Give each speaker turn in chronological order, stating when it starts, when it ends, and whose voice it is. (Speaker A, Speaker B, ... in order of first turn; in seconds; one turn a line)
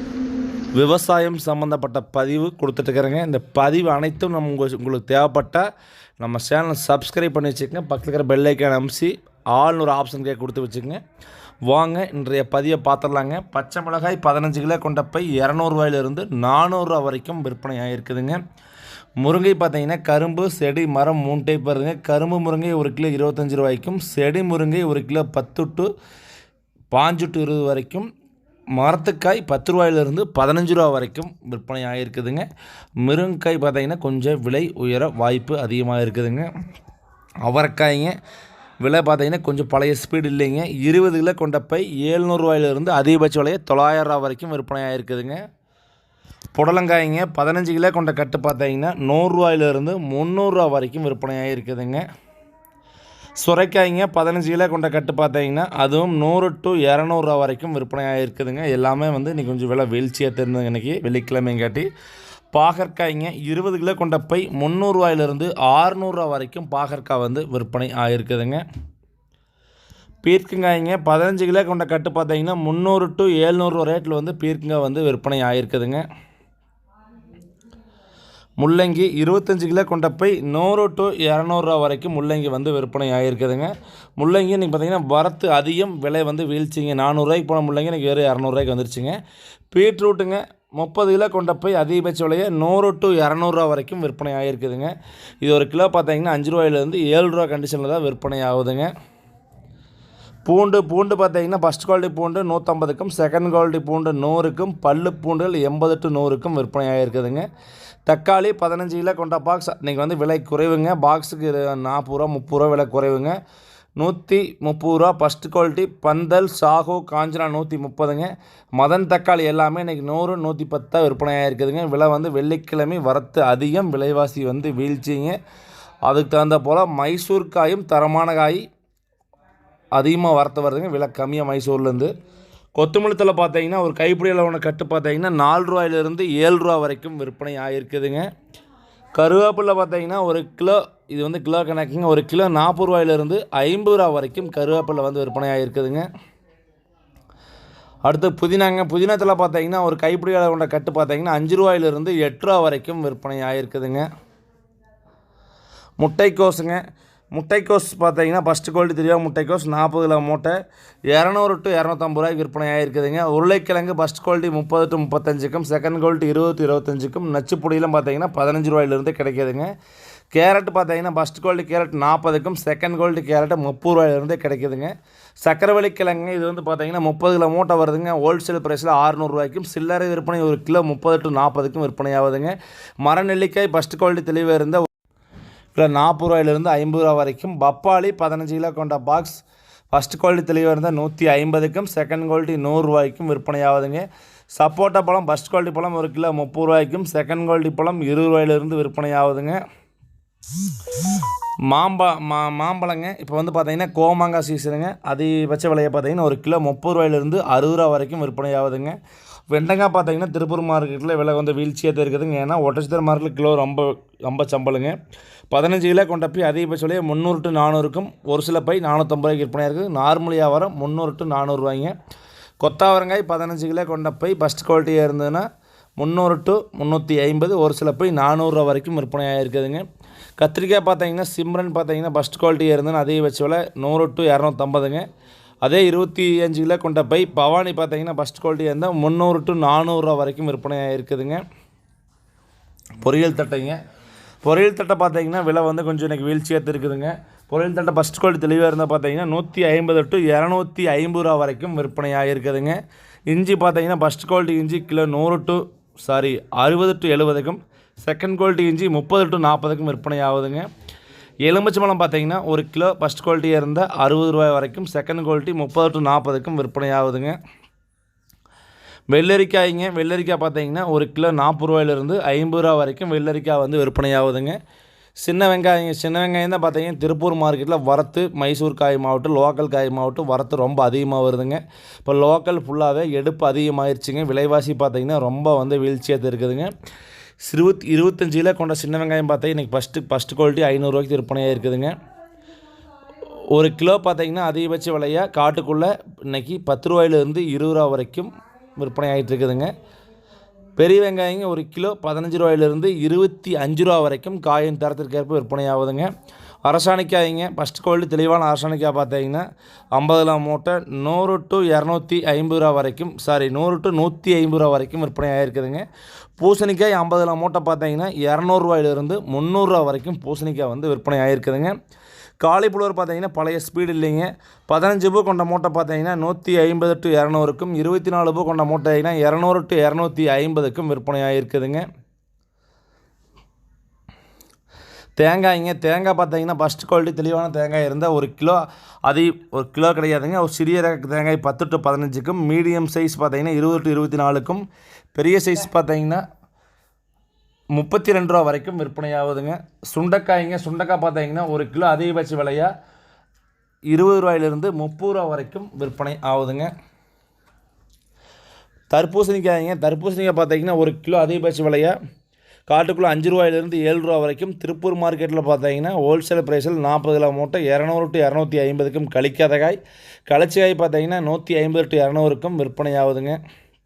Speaker A: 0.7-5.7
Speaker A: 6.2-11.0
Speaker A: 11.7-18.4
Speaker A: 19.2-25.9
Speaker A: 26.9-28.1
Speaker A: 28.8-32.5
Speaker A: 33.0-36.5
Speaker A: 37.4-38.1
Speaker A: 38.8-45.4
Speaker A: 46.5-52.0
Speaker A: 53.4-61.9
Speaker A: 62.5-68.6
Speaker A: 70.2-76.0
Speaker A: 78.6-89.2
Speaker A: 89.7-98.9
Speaker A: 100.5-107.5
Speaker A: 108.1-113.4
Speaker A: 114.0-125.4
Speaker A: 126.0-128.6
Speaker A: 129.9-132.1
Speaker A: 132.7-138.3
Speaker A: 139.1-146.1
Speaker A: 148.0-154.1
Speaker A: 156.0-156.8
Speaker A: 157.3-160.6
Speaker A: 161.1-169.7
Speaker A: 170.3-174.9
Speaker A: 175.4-184.9
Speaker A: 185.7-189.4
Speaker A: 189.9-194.0
Speaker A: 194.6-199.6
Speaker A: 201.7-209.0
Speaker A: 209.5-214.9
Speaker A: 215.5-221.9
Speaker A: 222.6-225.5
Speaker A: 226.0-229.8
Speaker A: 230.4-235.1
Speaker A: 235.6-241.4
Speaker A: 243.0-243.8
Speaker A: 244.4-252.8
Speaker A: 253.3-260.7
Speaker A: 261.4-267.4
Speaker A: 269.1-274.6
Speaker A: 275.2-286.7
Speaker A: 287.4-291.9
Speaker A: 293.5-299.7
Speaker A: 300.8-306.1
Speaker A: 306.6-315.9
Speaker A: 316.4-321.8
Speaker A: 322.4-331.9
Speaker A: 335.2-346.2
Speaker A: 347.7-352.7
Speaker A: 353.9-356.7
Speaker A: 358.9-361.9
Speaker A: 362.7-373.4